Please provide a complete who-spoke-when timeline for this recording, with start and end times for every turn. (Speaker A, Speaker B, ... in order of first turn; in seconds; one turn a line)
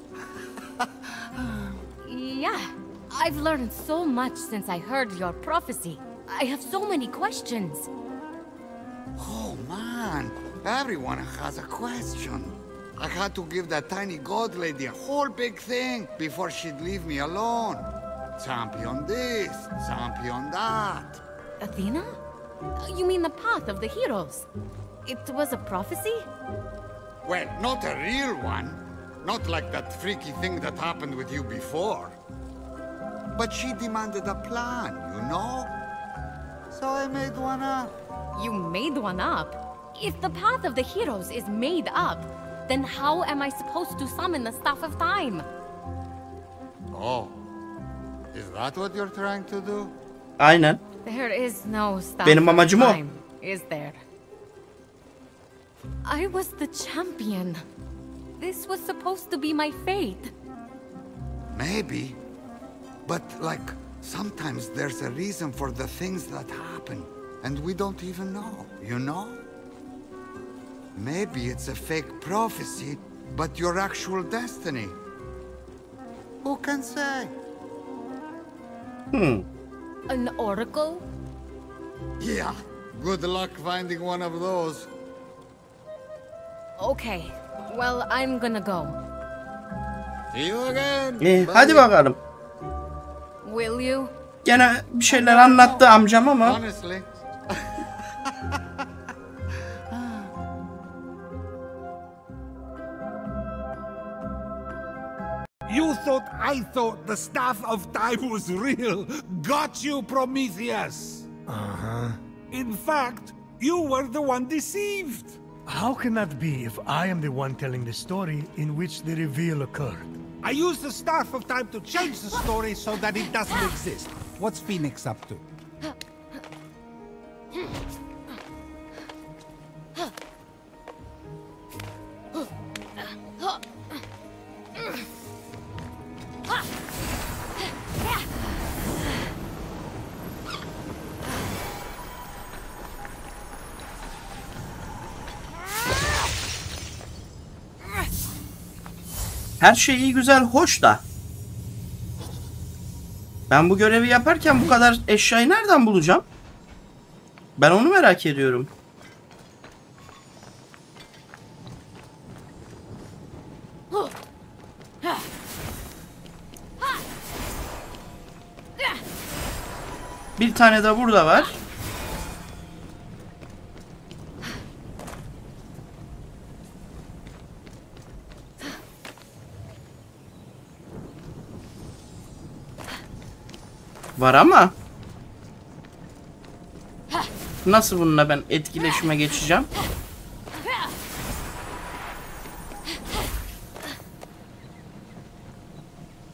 Speaker A: 0.8-1.8
Speaker B: 2.0-7.9
Speaker A: 9.2-21.2
Speaker B: 21.6-22.2
Speaker B: 22.8-24.5
Speaker B: 25.1-26.3
Speaker A: 27.2-32.2
Speaker A: 33.4-35.8
Speaker A: 36.7-38.0
Speaker B: 38.4-45.5
Speaker A: 46.9-47.4
Speaker A: 48.3-50.0
Speaker C: 50.4-50.8
Speaker B: 51.0-54.0
Speaker C: 52.2-53.0
Speaker B: 56.0-57.6
Speaker B: 58.4-60.3
Speaker A: 61.5-62.2
Speaker A: 63.0-69.4
Speaker A: 71.0-75.0
Speaker A: 76.4-77.3
Speaker C: 79.1-79.5
Speaker B: 80.1-81.0
Speaker A: 82.2-84.9
Speaker B: 86.8-89.0
Speaker A: 90.3-91.9
Speaker C: 91.2-92.2
Speaker B: 93.4-94.1
Speaker C: 94.5-96.6
Speaker A: 95.1-95.9
Speaker A: 96.4-98.6
Speaker A: 99.9-100.3
Speaker D: 105.7-111.3
Speaker E: 111.5-112.2
Speaker D: 112.5-115.4
Speaker E: 115.7-120.1
Speaker D: 120.4-125.4
Speaker C: 149.6-151.0
Speaker C: 153.5-156.2
Speaker C: 157.6-158.7
Speaker C: 170.4-171.6
Speaker C: 184.2-184.7
Speaker C: 187.7-189.7